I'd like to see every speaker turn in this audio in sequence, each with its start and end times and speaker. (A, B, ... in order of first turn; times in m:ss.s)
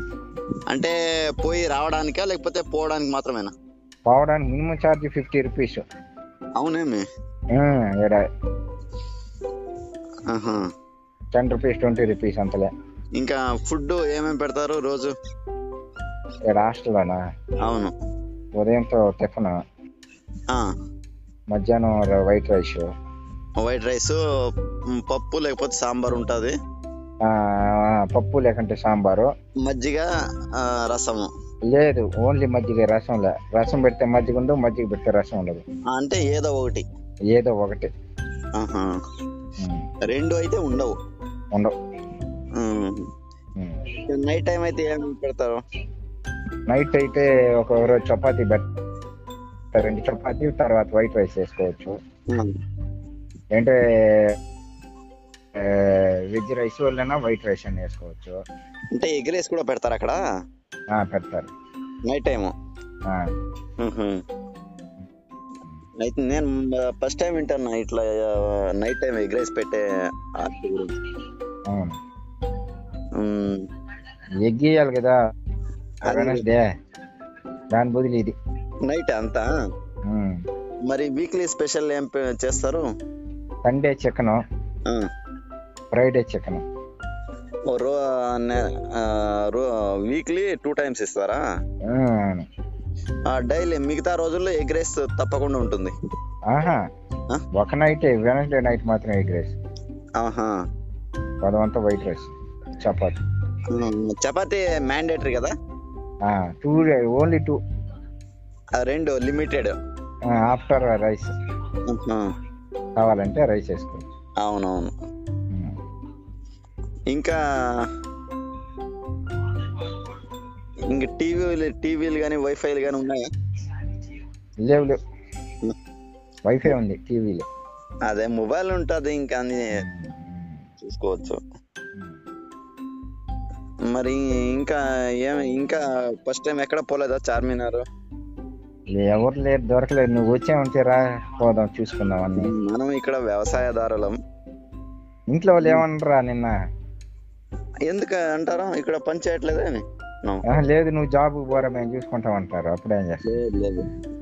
0:00.7-0:03.5 A
0:04.1-0:05.8 B
0:06.6-0:07.0 A
0:07.6-0:08.2 B
0:10.3-0:10.6 A
0:11.3-0:12.7 B
0:13.2-0:15.1 A
0:16.5-0:17.2 B
0:17.6-0:17.9 A
0:18.6-0:19.6 B
0:21.5-0:22.9 B
0:23.6-0:24.2 A
0:25.0-0:26.5 A
0:27.2-0:29.3 B
0:29.6-0:30.1 A
0:30.6-0:31.3 A
0:31.7-0:35.6 B
0:35.9-0:36.8 A
0:37.3-0:37.9 B
0:38.6-0:38.9 A
0:39.6-0:39.8 B
0:40.1-0:41.0 A
0:42.6-0:43.0 A
0:44.1-0:45.6 A
0:46.7-0:48.7 B
0:49.7-0:52.0 B
0:53.5-0:54.4 B
0:55.6-0:58.4 B
0:58.9-1:00.2 A
1:00.9-1:01.5 B
1:02.1-1:02.5 A
1:03.8-1:04.2 A
1:06.0-1:08.3 A
1:08.8-1:09.8 A
1:10.4-1:10.9 A
1:11.7-1:11.9 B
1:13.2-1:13.6 A
1:14.4-1:15.2 B
1:16.0-1:16.4 A
1:16.1-1:16.6 B
1:17.7-1:18.4 B
1:18.9-1:19.4 A
1:20.1-1:20.4 B
1:20.9-1:22.8 A
1:23.6-1:24.4 B
1:25.9-1:26.6 B
1:27.7-1:31.4 A
1:31.9-1:32.5 B
1:33.3-1:35.9 A
1:36.5-1:36.8 B
1:37.6-1:39.6 B
1:40.2-1:40.5 A
1:41.4-1:42.3 B
1:42.8-1:43.2 B
1:43.7-1:45.5 A
1:46.3-1:47.6 B
1:48.8-1:49.8 A
1:50.3-1:51.3 B
1:51.9-1:52.2 A
1:53.0-1:54.1 B
1:54.4-1:54.9 A
1:57.1-1:57.4 A
2:00.9-2:03.3 A
2:04.6-2:05.0 B
2:06.5-2:07.5 B
2:08.1-2:09.6 A
2:09.8-2:10.6 B
2:10.8-2:11.4 A
2:13.9-2:17.8 A
2:19.0-2:22.5 B
2:22.4-2:24.2 A
2:25.3-2:26.6 B
2:27.9-2:30.4 A
2:30.5-2:33.2 B
2:33.3-2:33.8 A